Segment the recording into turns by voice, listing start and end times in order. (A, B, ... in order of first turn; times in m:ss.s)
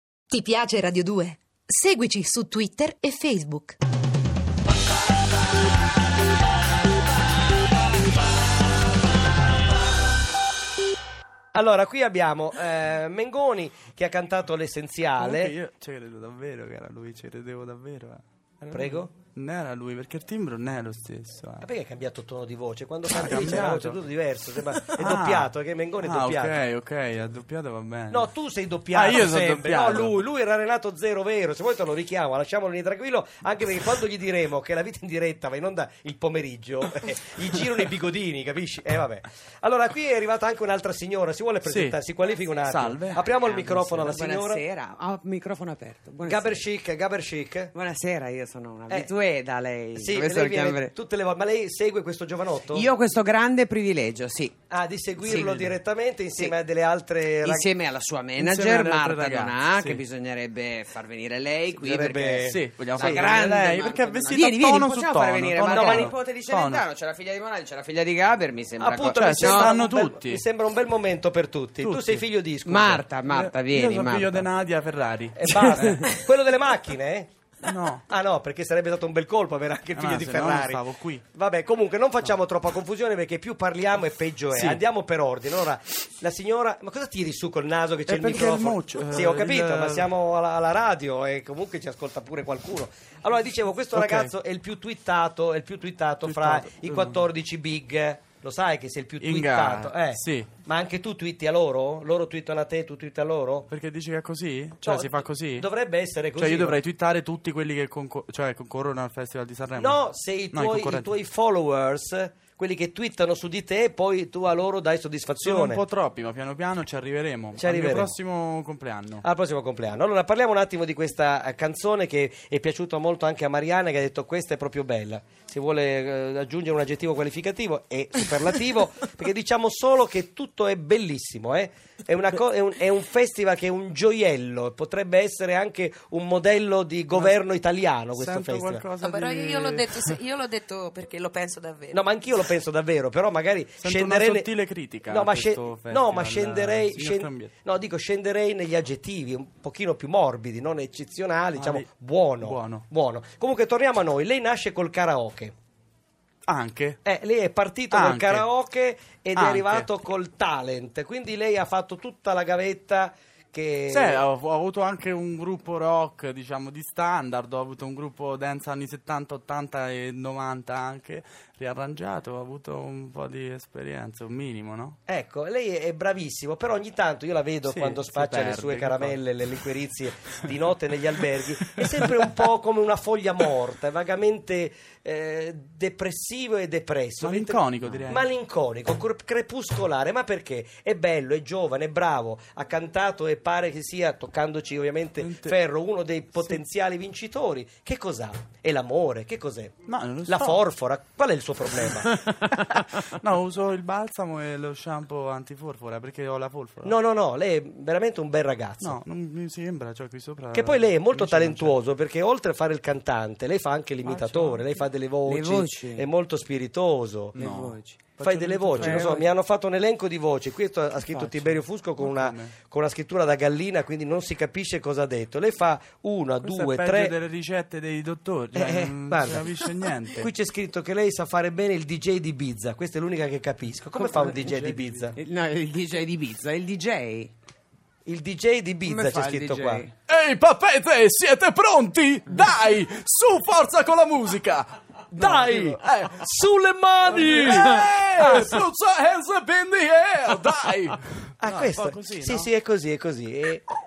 0:01.4-0:03.8 A
0:11.5-0:15.5 B
0:15.2-0:21.6 C
0:18.6-0:19.1 B
0:21.6-0:26.6 B
0:23.1-0:24.0 C
0:24.7-0:28.3 C
0:28.1-0:44.6 B
0:28.9-0:30.2 C
0:41.6-0:42.0 C
0:42.6-0:43.2 C
0:43.4-0:46.6 D
0:46.2-0:47.7 B
0:47.7-0:50.9 D
0:49.9-0:52.9 B
0:52.6-0:54.5 D
0:54.7-0:57.7 B
0:55.2-0:55.7 D
0:57.4-1:09.8 D
0:58.4-1:00.0 C
1:01.7-1:03.3 B
1:02.4-1:06.8 C
1:05.6-1:06.1 B
1:08.8-1:13.0 B
1:09.1-1:10.4 C
1:11.8-1:12.2 C
1:12.6-1:14.5 D
1:13.3-1:16.1 C
1:15.4-1:17.3 B
1:15.5-1:16.2 D
1:17.6-1:18.0 C
1:18.1-1:43.7 B
1:20.0-1:21.2 C
1:24.5-1:24.8 C
1:28.1-1:30.1 C
1:33.9-1:34.3 C
1:36.2-1:37.2 C
1:39.2-1:40.5 C
1:43.7-1:45.7 C
1:44.8-1:46.8 B
1:46.4-1:51.1 C
1:49.8-1:55.8 B
1:55.4-1:59.2 C
1:57.6-1:58.1 B
1:59.2-2:18.8 B
2:17.1-2:17.4 C
2:18.1-2:20.2 C
2:19.0-2:22.2 E
2:21.9-2:24.5 B
2:23.8-2:27.5 C
2:25.1-2:35.5 B
2:31.5-2:31.9 C
2:32.4-2:32.8 C
2:36.5-2:37.0 C
2:37.0-2:44.2 B
2:37.9-2:38.5 C
2:39.4-2:39.9 C
2:43.9-2:55.0 C
2:55.1-3:19.7 B
2:57.6-2:59.2 C
3:07.2-3:08.3 C
3:15.2-3:15.6 C
3:16.3-3:16.6 C
3:19.9-3:20.6 C
3:20.2-3:22.2 B
3:21.8-3:27.0 C
3:26.8-3:29.0 B
3:28.8-3:31.8 C
3:30.5-3:37.5 B
3:34.0-3:34.8 C
3:35.2-3:36.1 D
3:37.3-3:39.2 C
3:37.4-3:38.0 D
3:38.2-3:47.2 B
3:38.8-3:39.3 D
3:41.1-3:42.5 C
3:46.4-3:50.3 C
3:48.5-3:49.6 B
3:50.2-3:55.2 B
3:53.9-3:55.1 C
3:55.1-3:57.3 D
3:58.0-3:59.8 B
3:58.8-3:59.9 D
4:00.1-4:06.3 C
4:05.1-4:08.6 B
4:07.1-4:12.5 C
4:11.4-4:13.6 B